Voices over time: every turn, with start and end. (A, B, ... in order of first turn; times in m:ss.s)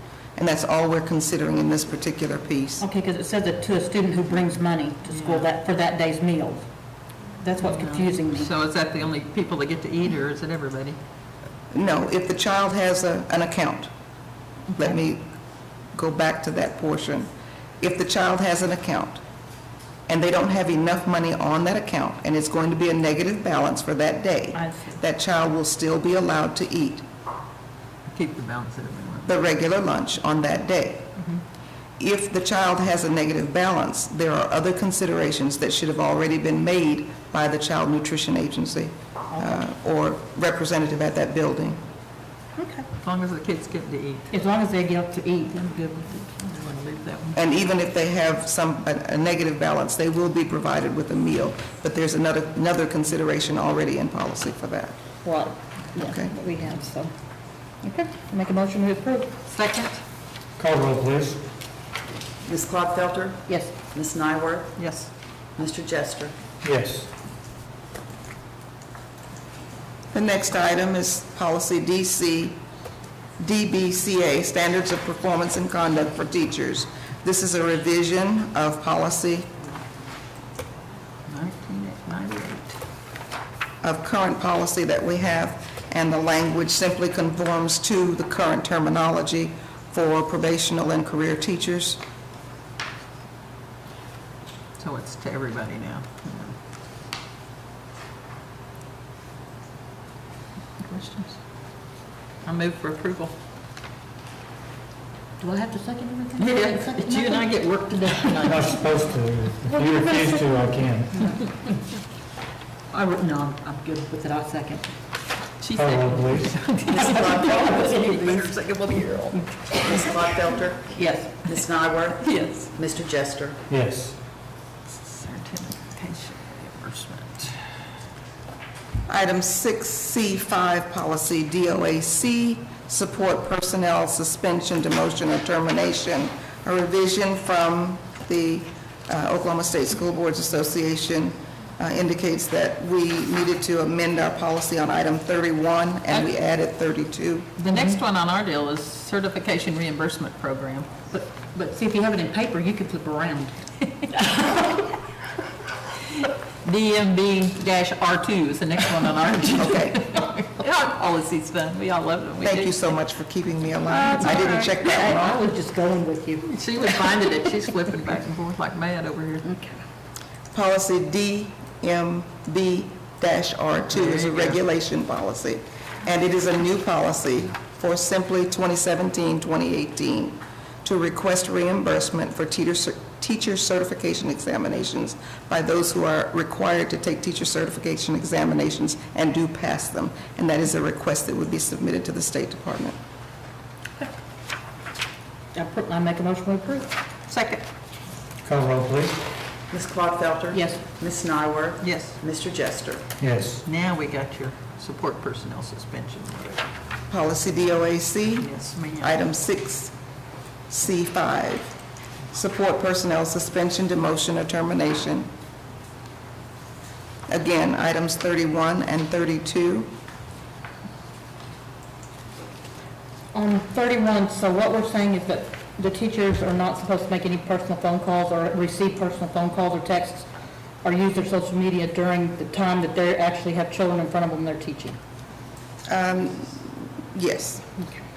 0:00.4-0:02.8 A
0:02.8-0:06.7 B
0:05.1-0:05.5 C
0:07.4-0:08.5 B
0:07.6-0:11.0 C
0:11.7-0:13.9 A
0:14.8-0:15.3 A
0:15.9-0:17.3 A
0:17.8-0:19.2 A
0:20.1-0:27.0 A
0:24.5-0:25.0 B
0:28.1-0:29.3 C
0:29.3-0:31.1 A
0:31.2-0:31.4 B
0:32.0-0:41.8 A
0:39.3-0:39.6 B
0:42.6-0:42.9 B
0:43.0-0:44.3 C
0:44.3-0:46.5 B
0:46.5-0:47.4 C
0:47.3-0:55.0 A
0:55.2-0:57.1 B
0:56.0-0:56.3 A
0:57.8-0:59.3 B
0:59.5-1:00.0 C
1:00.6-1:01.4 D
1:02.4-1:04.7 E
1:03.5-1:03.8 B
1:04.8-1:05.1 C
1:05.6-1:06.3 E
1:06.6-1:07.1 D
1:10.1-1:12.6 A
1:13.4-1:19.5 A
1:21.3-1:22.8 C
1:23.8-1:32.0 A
1:34.8-1:36.6 C
1:40.8-1:41.4 C
1:42.4-1:43.3 C
1:45.4-1:47.6 B
1:46.4-1:49.0 C
1:48.5-1:51.1 D
1:49.6-1:50.5 B
1:51.1-1:51.7 B
1:52.9-1:54.9 B
1:55.6-2:00.2 C
1:55.8-1:56.5 D
1:56.9-1:58.2 E
1:57.7-1:58.4 B
1:59.8-2:00.9 E
2:00.9-2:01.4 B
2:01.4-2:03.6 E
2:02.2-2:02.7 C
2:03.7-2:04.2 D
2:04.9-2:07.6 C
2:09.1-2:27.5 A
2:27.6-2:30.9 C
2:27.6-2:28.0 B
2:31.1-2:34.9 B
2:36.2-2:42.9 C
2:39.5-2:40.1 A
2:42.4-2:45.4 A
2:43.9-2:47.3 B
2:46.5-2:49.4 C
2:49.4-2:49.8 B
2:50.5-3:13.0 A
2:53.9-2:54.6 C
3:15.5-3:16.9 B
3:17.3-3:17.6 C
3:18.4-3:19.2 D
3:19.7-3:23.0 E
3:20.5-3:20.8 B
3:21.8-3:22.2 C
3:23.2-3:23.6 D
3:23.6-3:26.7 C
3:27.1-3:28.5 A
3:28.4-3:29.2 C
3:29.0-3:29.9 A
3:30.7-3:31.7 A
3:32.3-3:35.3 A
3:37.3-3:39.9 A
3:43.3-3:50.3 B
3:50.8-3:55.0 B
3:55.9-3:57.7 A